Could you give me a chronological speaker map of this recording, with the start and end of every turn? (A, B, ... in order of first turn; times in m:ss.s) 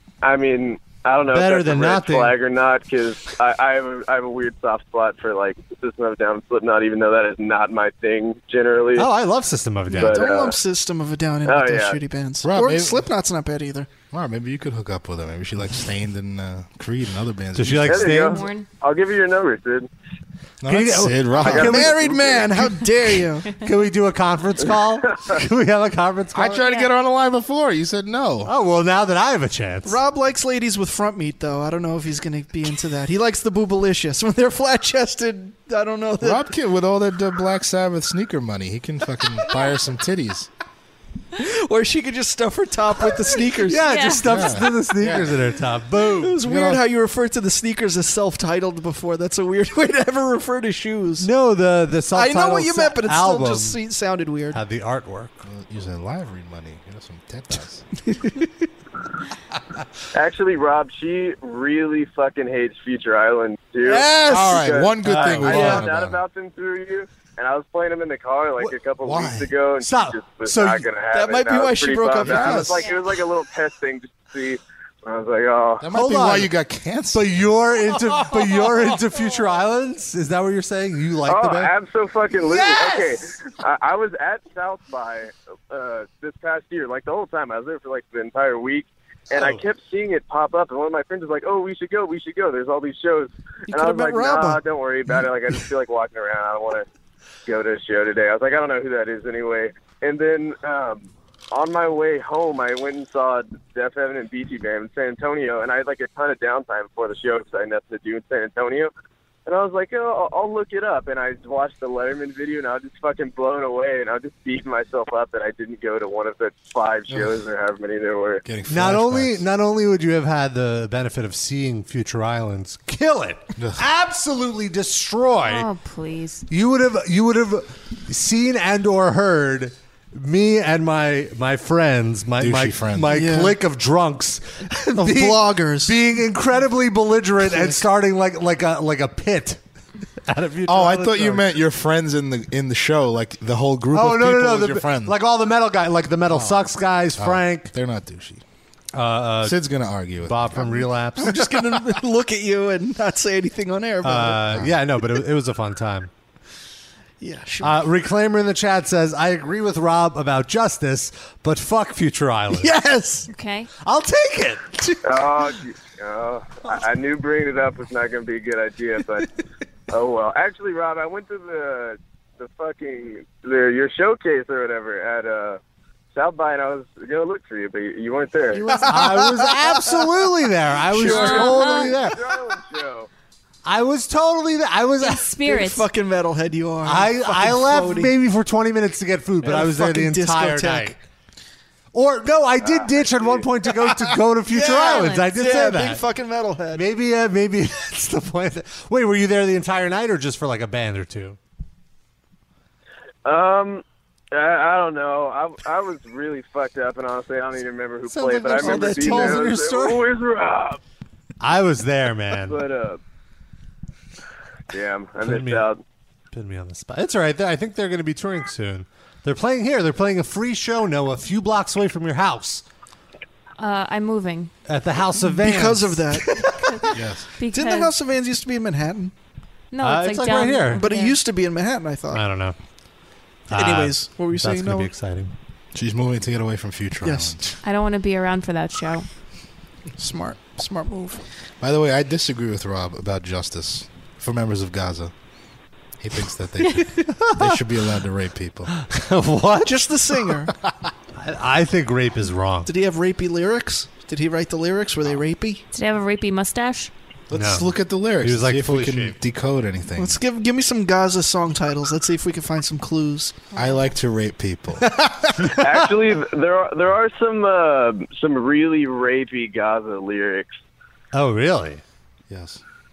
0:00.2-0:09.1 A
0:01.3-0:02.3 B
0:09.0-0:10.2 B
0:09.9-0:13.9 C
0:10.0-0:10.6 A
0:11.4-0:12.0 A
0:12.4-0:13.1 D
0:14.1-0:18.2 D
0:17.6-0:18.4 B
0:17.8-0:19.9 A
0:18.3-0:18.7 E
0:20.6-0:22.5 D
0:20.7-0:22.0 B
0:21.4-0:22.3 A
0:21.5-0:23.6 C
0:23.5-0:26.6 B
0:26.3-0:28.5 D
0:26.6-0:26.9 E
0:28.4-0:30.0 B
0:29.9-0:36.5 C
0:36.2-0:40.5 D
0:41.4-0:43.9 C
0:43.7-0:46.4 B
0:43.8-0:44.6 E
0:44.2-0:45.4 D
0:46.2-0:51.3 C
0:46.4-0:46.8 D
0:51.2-0:53.8 B
0:52.1-0:54.6 C
0:54.5-0:55.4 B
0:55.4-0:57.9 D
0:58.1-0:58.7 C
1:00.1-1:15.9 A
1:03.8-1:04.8 C
1:04.2-1:06.2 D
1:05.0-1:05.8 B
1:05.5-1:05.8 C
1:09.0-1:09.5 D
1:09.8-1:10.9 B
1:11.1-1:12.9 C
1:12.2-1:12.7 D
1:15.8-1:17.5 D
1:15.9-1:16.5 B
1:17.1-1:21.7 B
1:21.3-1:36.9 A
1:22.5-1:23.0 B
1:29.3-1:29.6 B
1:33.7-1:34.6 C
1:37.5-1:48.9 A
1:49.5-1:58.4 A
1:58.4-1:59.4 D
1:58.7-2:05.7 B
2:03.6-2:03.8 D
2:05.4-2:06.5 E
2:06.5-2:19.6 B
2:12.4-2:13.2 D
2:13.1-2:13.6 C
2:15.0-2:16.0 C
2:17.4-2:17.8 C
2:20.2-2:21.5 B
2:20.7-2:25.2 D
2:23.9-2:27.7 B
2:26.3-2:28.4 D
2:28.9-2:29.6 B
2:29.4-2:30.8 D
2:30.2-2:31.4 B
2:31.2-2:34.7 C
2:34.0-2:36.1 B
2:37.2-2:37.8 C
2:37.6-2:42.7 B
2:42.5-2:43.3 C
2:43.3-2:43.7 E
2:43.8-2:45.0 B
2:45.0-2:49.3 A
2:49.9-2:55.6 A
2:56.1-2:58.9 A
2:58.6-3:00.1 C
2:58.8-3:02.2 B
3:00.9-3:01.8 C
3:01.0-3:02.0 E
3:01.1-3:03.1 A
3:03.7-3:05.3 B
3:05.0-3:05.9 E
3:05.4-3:08.1 C
3:06.9-3:11.0 B
3:09.4-3:11.0 C
3:11.9-3:16.0 B
3:12.6-3:13.5 A
3:14.5-3:16.9 C
3:14.7-3:15.3 E
3:16.7-3:21.4 B
3:23.2-3:30.8 A
3:28.1-3:30.0 B
3:28.6-3:29.5 C
3:31.4-3:32.6 B
3:32.4-3:33.0 A
3:34.7-3:35.8 A
3:35.2-3:35.7 B
3:36.3-3:42.6 B
3:43.6-3:44.5 E
3:44.7-3:46.7 B
3:45.2-3:46.6 C
3:46.9-3:47.3 D
3:47.4-3:47.9 E
3:47.5-3:49.1 C
3:49.7-3:51.2 E
3:49.8-3:50.9 B
3:50.7-3:52.2 C
3:52.1-3:52.6 B
3:53.5-3:55.3 B
3:53.5-3:54.9 C
3:55.7-3:57.4 D
3:57.0-3:57.4 C
3:57.6-3:59.1 E
4:00.0-4:01.2 C
4:01.6-4:05.1 D
4:06.0-4:08.7 D
4:08.8-4:09.8 B
4:09.6-4:10.5 C
4:11.2-4:12.7 B
4:12.7-4:15.6 C
4:15.7-4:16.9 E
4:17.3-4:20.2 D
4:17.3-4:19.2 B
4:20.0-4:23.4 C
4:23.5-4:23.8 E
4:23.6-4:25.0 D
4:25.6-4:30.5 A
4:31.1-4:31.8 B
4:32.3-4:32.6 D